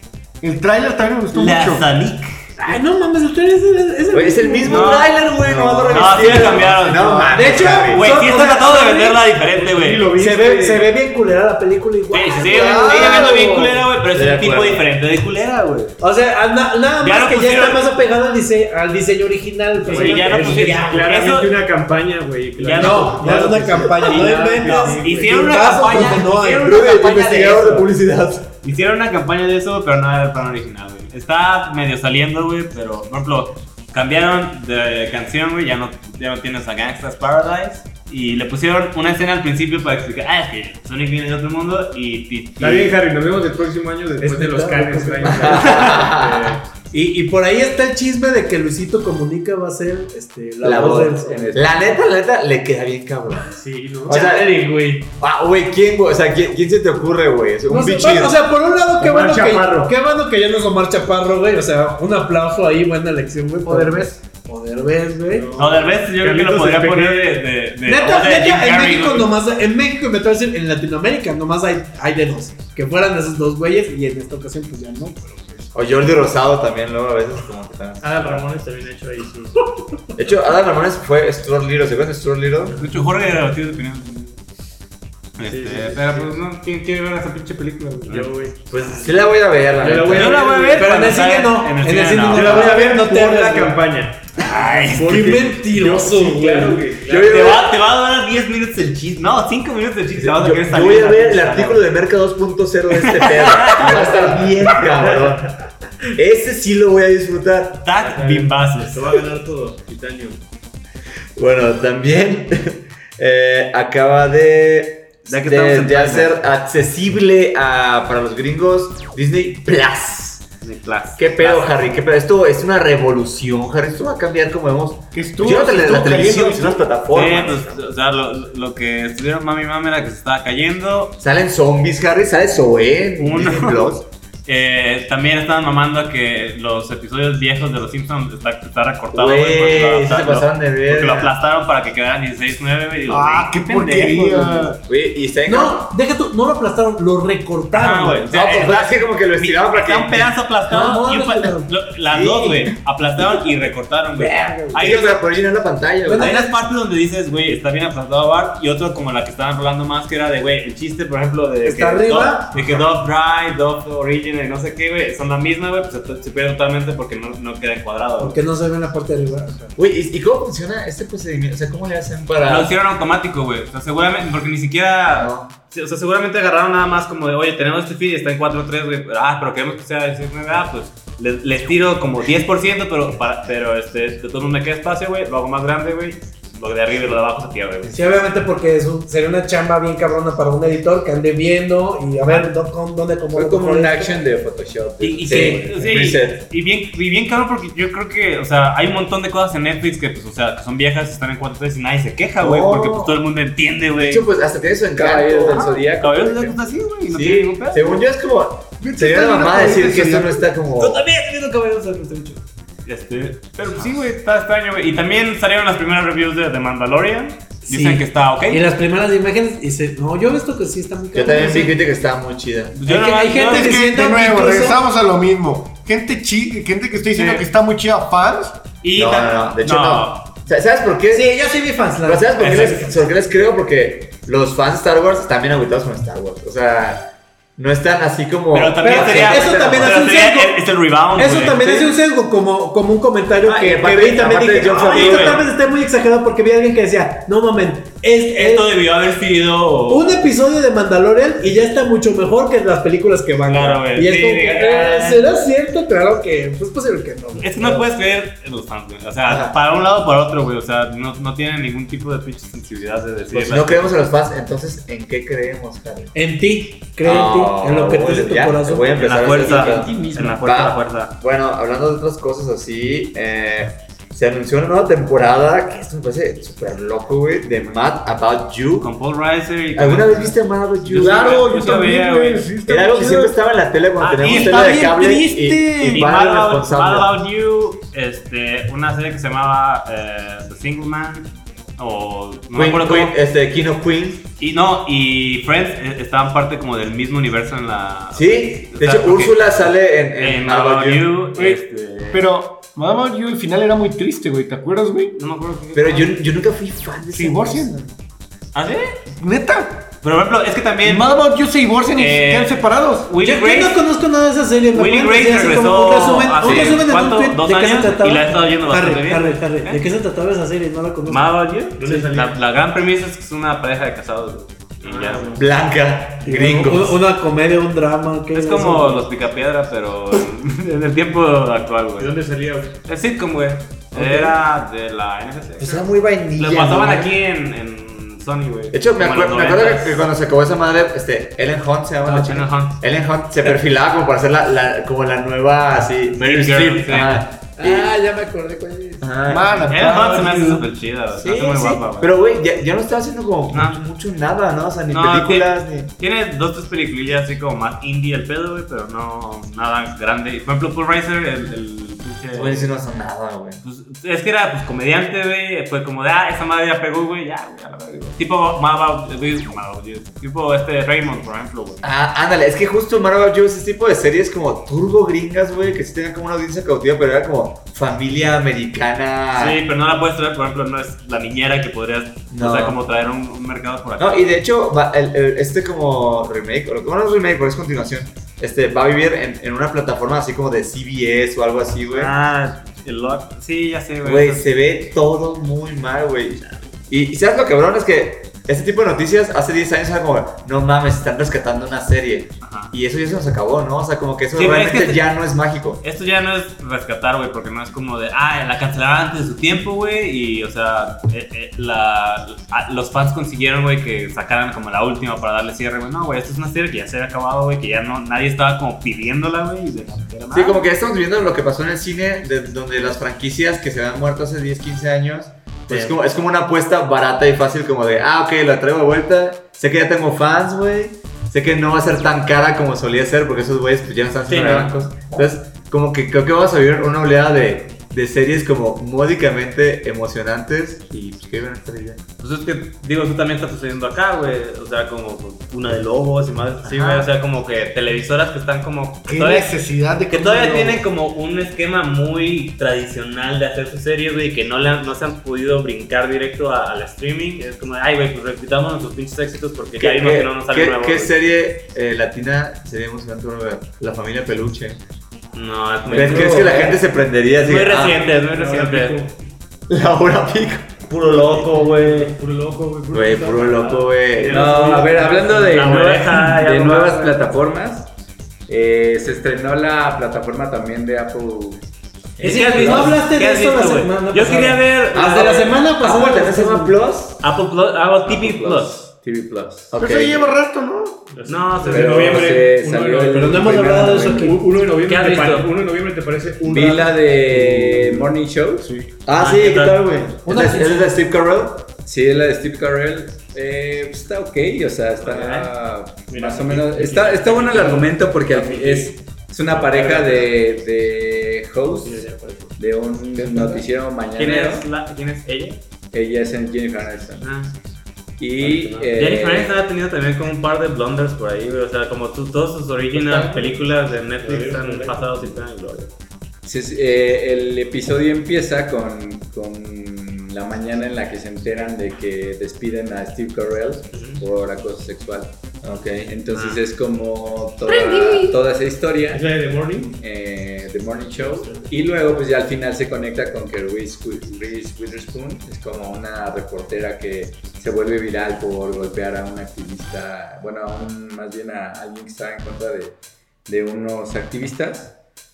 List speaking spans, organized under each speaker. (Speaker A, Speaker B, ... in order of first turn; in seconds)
Speaker A: 0.4-1.9, 5.5-5.8, 125.1-126.8, 143.1-144.8, 208.8-210.5, 223.4-228.6, 280.9-283.4, 284.3-285.5, 301.3-301.6, 302.1-305.2, 307.1-307.8, 309.2-309.8, 310.8-313.1, 349.3-350.6, 449.1-450.8, 489.8-491.1
Speaker B: 1.3-2.5, 4.7-5.2, 5.9-10.1, 12.1-15.9, 17.0-17.8, 19.9-21.5, 22.6-23.4, 24.1-26.7, 28.6-43.0, 65.6-69.3, 82.8-84.4, 85.3-88.3, 90.0-92.8, 94.5-95.3, 97.2-101.8, 102.9-104.4, 107.8-109.1, 115.3-116.3, 120.6-121.7, 127.1-131.1, 133.2-133.9, 134.4-144.7, 147.7-155.2, 156.1-168.4, 172.4-188.2, 195.0-204.2, 205.5-208.0, 210.8-218.6, 222.7-223.8, 227.1-227.4, 228.8-230.3, 232.4-232.9, 238.5-241.9, 244.8-245.4, 248.3-250.3, 253.5-255.2, 257.4-263.9, 268.9-271.1, 278.8-282.5, 284.0-284.9, 285.8-293.1, 294.4-302.3, 305.1-306.2, 308.5-308.9, 310.0-311.1, 311.9-313.8, 314.7-319.8, 321.1-325.4, 328.3-332.1, 332.9-340.1, 342.1-342.8, 346.2-347.2, 349.7-352.1, 353.5-353.8, 354.9-362.7, 363.6-371.8, 379.3-384.3, 391.9-394.5, 396.4-396.7, 402.4-402.7, 404.3-405.1, 405.8-420.6, 425.7-425.9, 434.3-434.7, 442.2-449.5, 450.1-461.1, 465.3-466.8, 467.4-469.0, 470.9-472.1, 475.4-477.2, 482.2-485.6, 487.2-488.9, 491.3-492.3, 494.8-495.5, 499.1-499.9, 505.0-505.5, 514.1-515.6, 517.2-517.6, 518.9-525.9, 536.3-536.6
Speaker C: 2.6-5.1, 7.3-9.3, 10.1-13.5, 16.0-21.1, 22.8-27.9, 44.2-45.9, 46.9-51.6, 54.0-55.0, 57.7-65.5, 67.8-75.4, 90.7-93.8, 94.4-96.8, 145.4-148.3, 150.7-151.7, 154.2-154.9, 156.1-156.5, 161.6-162.5, 168.2-169.7, 187.9-194.1, 195.3-195.6, 217.7-221.8, 222.8-224.8, 231.1-233.0, 238.8-240.6, 241.1-248.7, 249.9-257.9, 266.1-269.7, 285.7-286.0, 313.2-322.0, 326.2-329.1, 333.9-334.3, 482.2-486.7, 493.1-494.4, 500.2-500.9
Speaker D: 4.1-8.2, 12.5-14.8, 25.7-28.5, 45.2-46.6, 50.6-53.5, 54.0-54.7, 55.2-58.4, 75.7-78.4, 80.1-82.8, 88.8-90.4, 97.0-97.7, 100.1-105.5, 106.2-107.9, 111.3-120.5, 121.2-127.8, 131.2-134.0, 139.1-141.3, 144.8-145.9, 148.3-150.3, 152.1-152.7, 154.7-156.3, 162.5-162.8, 169.8-172.7, 175.1-175.5, 195.8-196.4, 202.4-203.1, 203.9-206.5, 207.1-211.0, 221.1-222.8, 228.9-240.0, 243.4-245.4, 259.2-259.6, 263.3-266.1, 267.0-278.9, 279.7-281.4, 282.7-287.1, 292.5-294.2, 298.1-301.1, 305.7-307.9, 316.4-316.8, 325.4-327.0, 335.6-337.1, 338.7-347.9, 349.0-349.7, 351.1-355.9, 362.3-363.6, 371.8-379.6, 382.3-382.8, 384.0-392.1, 394.0-405.8, 420.3-442.0, 446.6-447.1, 459.8-464.8, 465.9-468.1, 469.7-471.1, 472.9-474.6, 484.9-487.2, 489.7-490.2, 499.0-501.7
Speaker E: 9.5-10.9, 19.8-25.7, 42.6-46.6, 53.5-54.3, 59.0-59.9, 63.6-64.1, 65.3-67.4, 78.0-79.7, 85.4-86.4, 88.0-91.0, 92.3-97.5, 103.9-104.3, 105.0-105.3, 108.0-110.4, 321.8-322.4, 324.8-325.5, 332.0-332.8, 468.1-469.2, 471.0-476.2, 491.1-493.5, 494.1-498.1, 506.1-510.3, 511.8-512.6, 513.3-513.6, 518.4-518.9, 522.9-523.6, 524.2-525.4, 539.1-540.0, 541.1-541.7
Speaker F: 50.7-51.7, 193.3-196.0, 204.9-206.6, 269.2-270.4, 347.6-349.1, 465.9-466.8, 474.2-477.9, 478.5-481.6, 482.2-483.0, 488.0-489.7, 491.7-494.4, 496.4-498.7, 501.8-514.7, 515.9-517.3, 518.2-519.5, 526.4-539.3, 539.9-554.9